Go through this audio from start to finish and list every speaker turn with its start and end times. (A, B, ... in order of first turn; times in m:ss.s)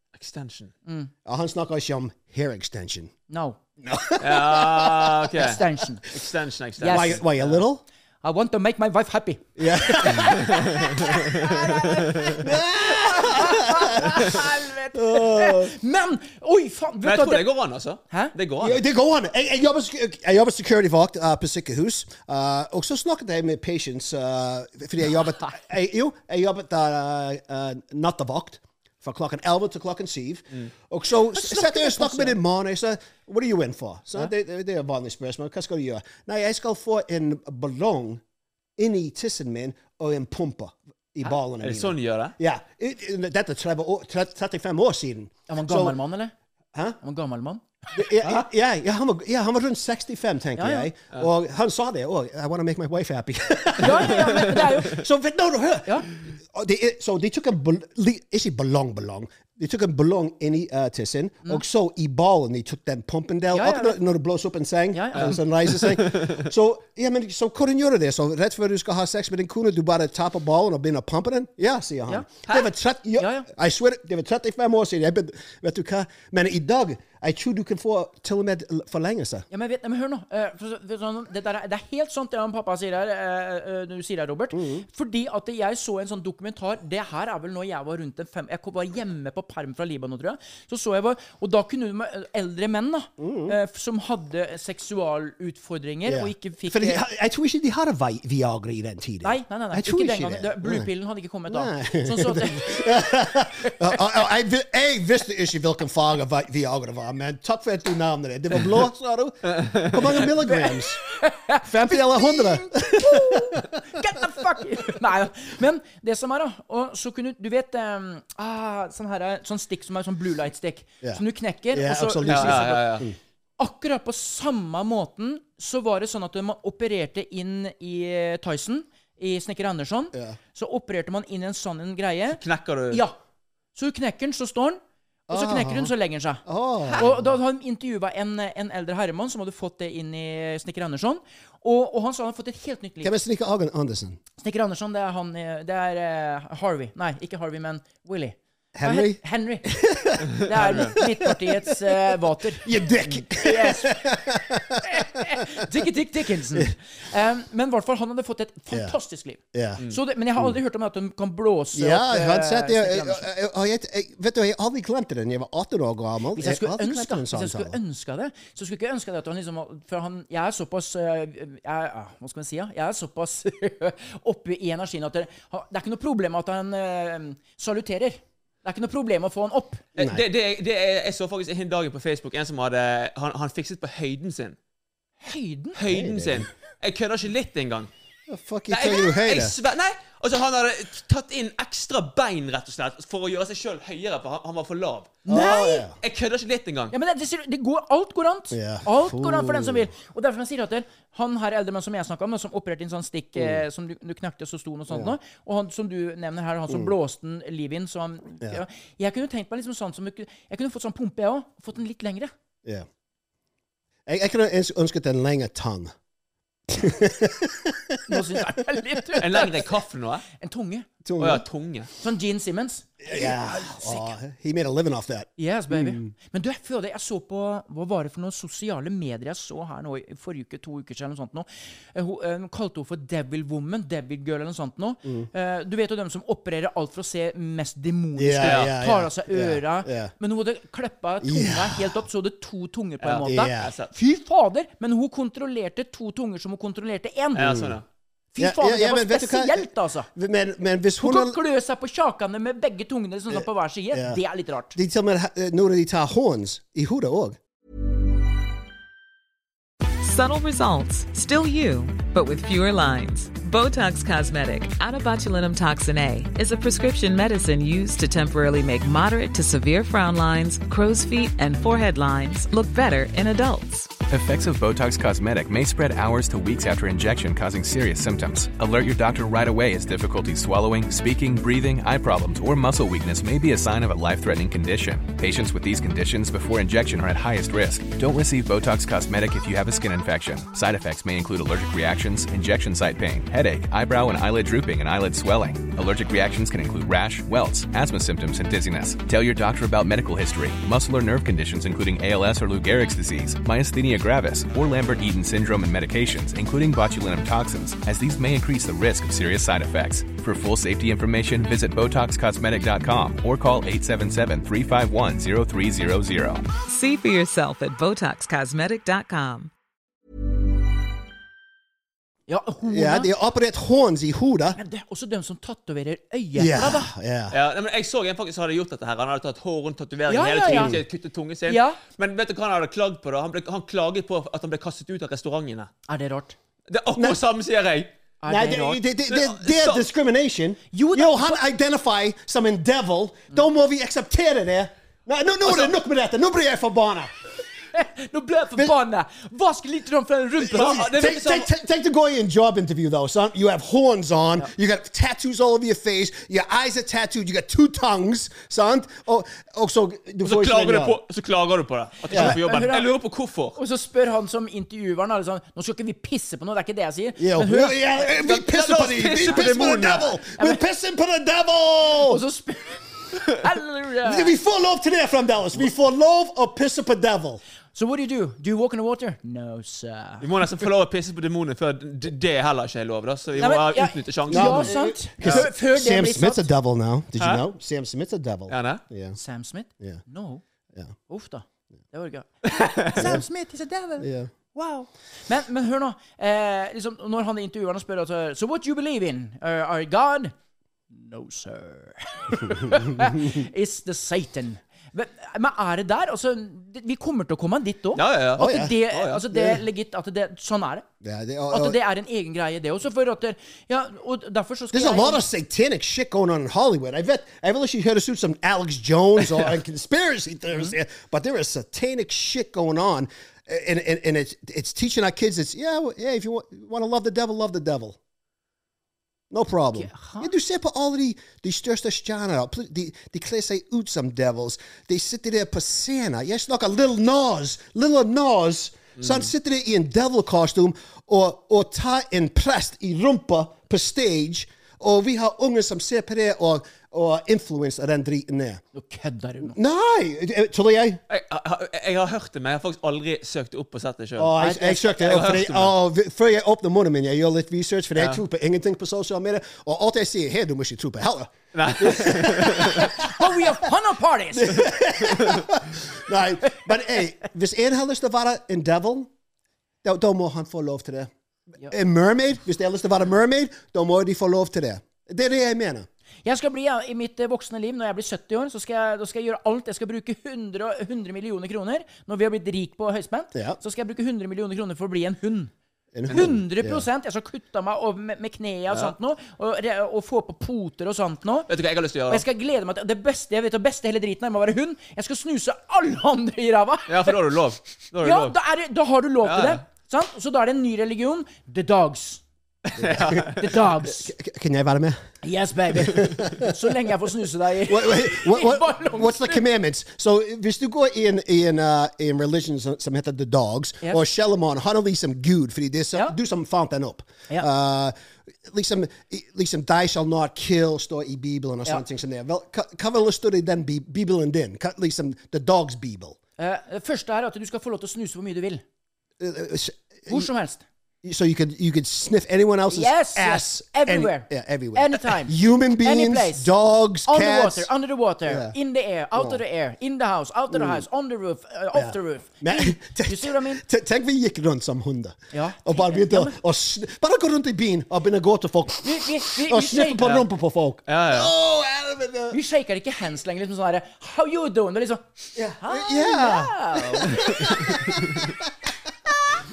0:00.1-0:00.7 A
0:00.8-0:01.1 B
0:01.2-0:03.1 C
0:03.3-0:03.6 B
0:03.8-0:05.4 C
0:04.2-0:07.6 A
0:05.4-0:06.0 B
0:06.8-0:07.2 B
0:06.8-0:07.8 C
0:08.2-0:17.5 B
0:09.6-0:15.8 C
0:17.0-0:18.8 A
0:18.6-0:38.2 C
0:31.3-0:32.4 B
0:38.8-0:46.0 C
0:41.6-0:42.4 A
0:45.5-0:46.3 B
0:46.7-0:47.0 C
0:47.0-0:48.5 B
0:47.9-1:19.4 C
0:50.6-0:50.9 B
0:53.8-0:55.0 B
1:03.5-1:04.0 B
1:04.9-1:05.4 B
1:05.2-1:06.4 A
1:13.2-1:13.5 B
1:19.5-1:37.0 B
1:24.5-1:24.8 C
1:33.2-1:33.5 C
1:36.0-1:40.9 C
1:39.2-1:43.1 B
1:41.5-1:51.0 C
1:49.5-1:50.0 A
1:50.4-2:03.0 B
1:51.6-1:53.7 C
2:01.0-2:03.2 C
2:02.2-2:03.1 A
2:03.6-2:13.2 B
2:12.3-2:13.0 A
2:13.7-2:23.1 B
2:15.3-2:15.9 C
2:16.4-2:17.4 C
2:23.0-2:24.2 C
2:24.4-2:43.2 B
2:28.7-2:32.0 C
2:30.5-2:30.9 A
2:32.6-2:35.7 C
2:39.5-2:39.8 C
2:41.7-2:47.8 C
2:46.3-2:59.9 B
3:00.0-3:04.6 A
3:05.2-3:05.8 B
3:05.8-3:07.9 A
3:05.9-3:06.5 C
3:08.3-3:09.5 C
3:08.7-3:15.2 A
3:15.2-3:16.0 C
3:15.3-3:15.8 B
3:16.0-3:16.9 A
3:16.9-3:32.3 B
3:18.5-3:19.9 C
3:23.4-3:23.6 C
3:34.0-3:35.9 C
3:36.7-3:38.5 C
3:38.0-3:39.7 B
3:39.2-3:40.2 A
3:40.3-3:40.9 B
3:41.0-3:41.4 C
3:41.2-3:41.9 A
3:42.0-3:44.1 B
3:43.0-3:46.1 C
3:45.4-4:07.5 B
3:58.2-4:00.1 C
3:58.4-3:58.7 A
4:01.2-4:02.0 C
4:03.0-4:03.9 A
4:03.2-4:03.7 C
4:07.3-4:07.8 A
4:07.4-4:07.8 C
4:08.4-4:10.1 B
4:08.4-4:11.4 C
4:11.0-4:14.8 B
4:13.3-4:14.2 C
4:14.7-4:17.4 C
4:20.0-4:34.0 D
4:34.0-5:16.5 E
5:16.6-5:19.5 D
5:22.3-5:23.1 B
5:22.7-5:24.6 C
5:24.5-5:26.9 B
5:26.4-5:27.4 C
5:27.3-5:35.7 A
5:30.1-5:30.8 B
5:30.5-5:30.8 C
5:31.5-5:31.8 B
5:35.9-5:36.4 B
5:36.7-5:37.9 A
5:38.2-5:38.8 B
5:38.3-5:47.1 C
5:39.1-5:39.8 A
5:40.7-5:41.4 B
5:45.5-5:45.7 A
5:47.7-5:51.4 B
5:50.4-6:01.0 C
5:50.5-5:51.4 A
6:00.2-6:03.6 A
6:02.1-6:02.9 B
6:03.6-6:08.3 B
6:07.2-6:12.2 C
6:08.2-6:10.1 A
6:09.3-6:09.5 B
6:10.4-6:10.6 B
6:12.0-6:14.3 B
6:14.0-6:17.4 C
6:17.7-6:20.5 B
6:20.2-6:25.5 A
6:23.4-6:26.5 B
6:24.3-6:29.2 C
6:28.5-6:28.8 A
6:29.1-6:30.4 B
6:31.1-6:40.3 B
6:34.0-6:34.3 C
6:40.9-6:50.8 B
6:42.6-6:43.4 C
6:48.0-6:49.2 A
6:48.4-6:48.8 C
6:49.3-6:49.6 C
6:51.0-6:51.8 C
6:51.5-6:55.2 B
6:54.7-7:08.0 C
7:09.3-7:28.6 C
7:09.7-7:10.3 B
7:28.7-7:29.6 B
7:29.4-7:31.0 C
7:31.1-7:35.7 A
7:34.2-7:43.4 C
7:34.4-7:34.9 B
7:41.5-7:42.9 A
7:42.5-7:44.7 B
7:44.3-7:49.1 C
7:45.2-7:45.4 A
7:49.8-7:51.1 C
7:51.6-7:55.9 C
7:56.2-8:05.5 B
8:03.3-8:03.6 C
8:05.9-8:06.8 C
8:06.1-8:11.5 B
8:11.5-8:12.2 A
8:12.1-8:17.2 B
8:16.9-8:18.4 A
8:18.0-8:22.2 B
8:19.2-8:19.6 A
8:22.6-8:23.5 A
8:22.8-8:25.0 C
8:23.2-8:24.1 B
8:25.2-8:29.4 B
8:25.8-8:26.5 C
8:27.6-8:46.2 C
8:46.4-8:48.6 B
8:49.2-8:50.3 C
8:50.1-8:50.6 B
8:51.0-8:57.7 C
8:52.7-8:56.5 B
8:57.1-9:03.6 B
8:58.3-8:58.5 C
9:00.5-9:00.8 C
9:01.7-9:12.4 C
9:05.3-9:06.4 B
9:08.8-9:10.1 B
9:10.0-9:10.2 A
9:10.9-9:11.3 A
9:12.3-9:18.0 B
9:15.3-9:18.7 C